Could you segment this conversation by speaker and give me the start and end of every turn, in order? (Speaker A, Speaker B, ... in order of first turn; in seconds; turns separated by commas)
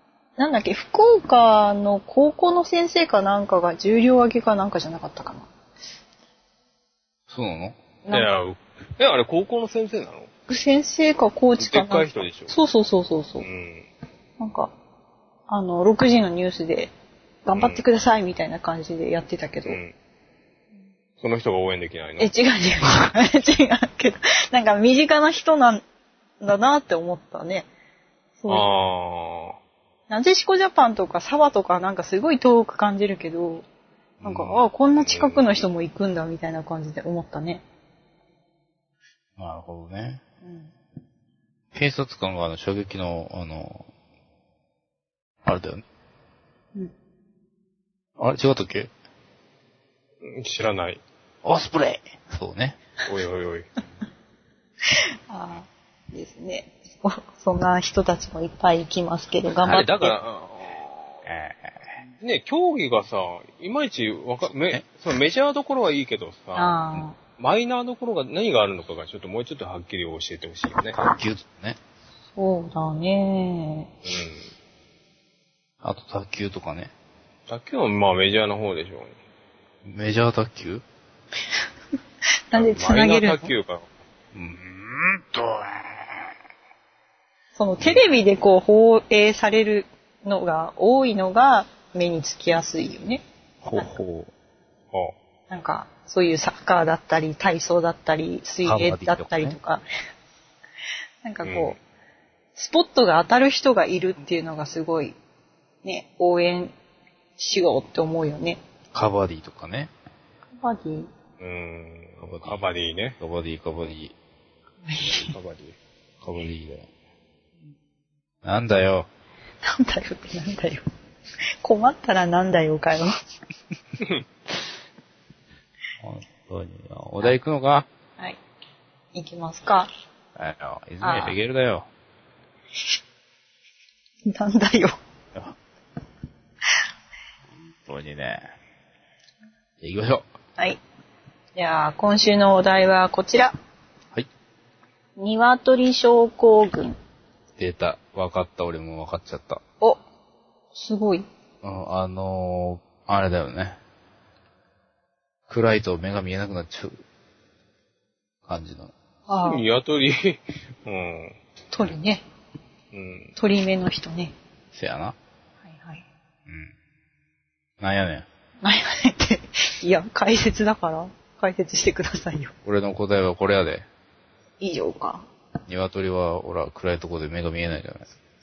Speaker A: 0.4-5.5, Speaker B: 7.3-7.8, Speaker A: 8.0-8.3, Speaker C: 8.1-10.3, Speaker A: 10.5-13.5, Speaker C: 11.6-12.6, Speaker C: 13.4-13.9, Speaker A: 14.4-14.7, Speaker A: 15.5-16.9, Speaker A: 17.4-19.8, Speaker C: 17.6-17.9, Speaker C: 19.6-19.9, Speaker C: 21.2-22.3, Speaker A: 22.2-25.8, Speaker A: 26.4-27.7, Speaker A: 28.4-28.7, Speaker C: 28.5-29.6, Speaker A: 30.1-33.6, Speaker B: 34.2-34.6, Speaker A: 34.2-37.6, Speaker C: 35.0-35.5, Speaker B: 39.4-40.2, Speaker A: 40.4-40.7, Speaker B: 41.7-43.9, Speaker B: 45.4-45.8, Speaker B: 48.2-48.9, Speaker C: 50.2-51.0, Speaker B: 51.4-52.8, Speaker C: 53.0-53.6, Speaker A: 55.3-60.1, Speaker C: 59.7-61.2, Speaker B: 61.2-62.0, Speaker C: 62.2-66.8, Speaker A: 66.5-67.2, Speaker C: 67.4-71.0, Speaker B: 70.9-71.8, Speaker A: 72.3-73.9, Speaker C: 74.0-74.5, Speaker B: 75.8-76.9, Speaker C: 77.5-79.2, Speaker B: 79.8-80.8, Speaker A: 82.5-83.5, Speaker C: 82.5-83.9, Speaker B: 84.3-85.9, Speaker A: 87.5-93.2, Speaker B: 93.6-94.3, Speaker A: 95.5-99.8, Speaker B: 98.6-99.6, Speaker A: 101.2-101.8, Speaker C: 101.4-101.8, Speaker A: 102.5-105.2, Speaker A: 105.8-106.7, Speaker A: 107.4-108.6, Speaker B: 108.9-109.9, Speaker A: 110.6-111.1, Speaker C: 111.4-113.2, Speaker B: 112.2-112.6, Speaker B: 113.2-114.1, Speaker A: 114.8-115.3, Speaker C: 115.0-115.8, Speaker B: 116.2-116.9, Speaker B: 118.4-119.1, Speaker A: 119.7-120.8, Speaker A: 121.6-123.1, Speaker B: 126.0-127.9, Speaker A: 129.1-129.9, Speaker B: 130.3-131.9, Speaker A: 131.0-131.4, Speaker A: 134.2-134.9, Speaker B: 137.8-138.4, Speaker B: 139.8-140.2, Speaker A: 141.5-143.5, Speaker A: 145.2-147.0, Speaker B: 147.6-149.6, Speaker A: 150.7-151.2, Speaker B: 151.6-153.8, Speaker B: 155.5-157.0, Speaker B: 158.5-158.9, Speaker A: 159.3-159.6, Speaker C: 159.4-161.4, Speaker A: 161.7-162.2, Speaker C: 162.9-163.3, Speaker A: 163.3-164.3, Speaker B: 164.7-165.2, Speaker A: 165.6-166.0, Speaker B: 167.8-168.3, Speaker A: 168.6-172.5, Speaker B: 172.6-173.9, Speaker A: 174.6-175.2, Speaker B: 175.7-178.1